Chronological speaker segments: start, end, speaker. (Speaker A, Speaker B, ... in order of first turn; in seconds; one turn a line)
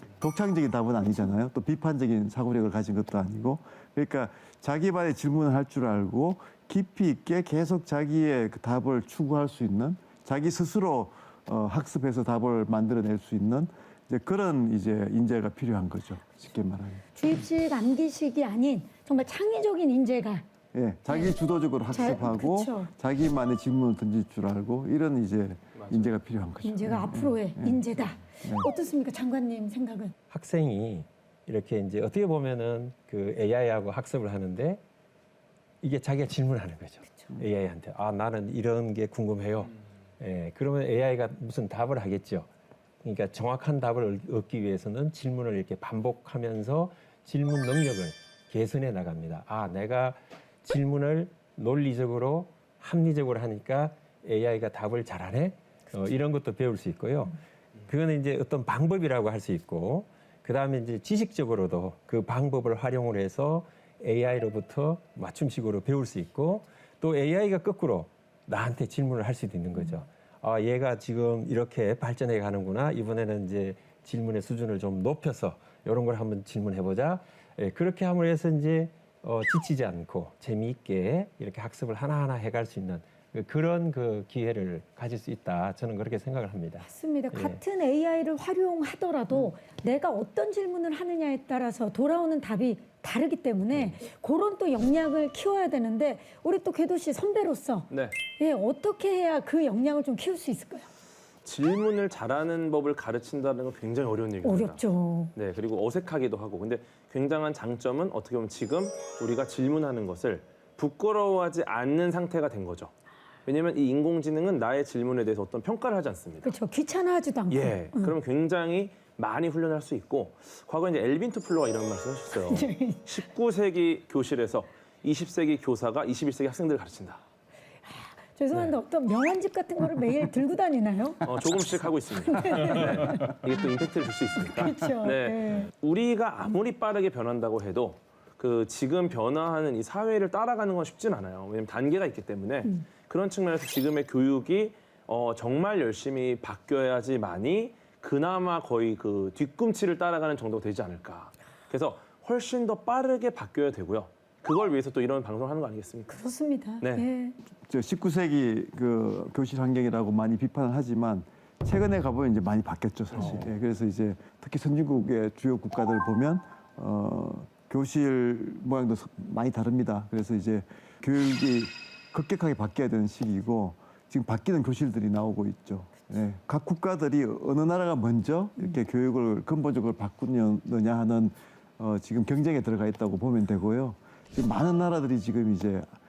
Speaker A: 0.2-17.0
Speaker B: 17.2-20.4
Speaker A: 20.7-28.7
Speaker B: 21.1-21.3
Speaker B: 21.9-22.9
Speaker C: 25.8-26.1
Speaker B: 26.6-30.1
Speaker D: 30.3-34.8
Speaker D: 35.8-42.5
Speaker D: 43.0-87.6
Speaker B: 86.8-100.9
Speaker C: 97.9-98.2
Speaker C: 101.5-104.8
Speaker B: 104.4-105.3
Speaker C: 105.3-112.9
Speaker C: 113.5-116.5
Speaker B: 116.4-118.1
Speaker C: 117.5-127.2
Speaker B: 122.3-123.1
Speaker B: 127.8-131.3
Speaker C: 131.2-156.2
Speaker B: 132.2-133.4
Speaker B: 134.4-135.7
Speaker B: 156.1-157.4
Speaker C: 156.8-157.1
Speaker A: 157.7-185.9
Speaker C: 163.1-163.5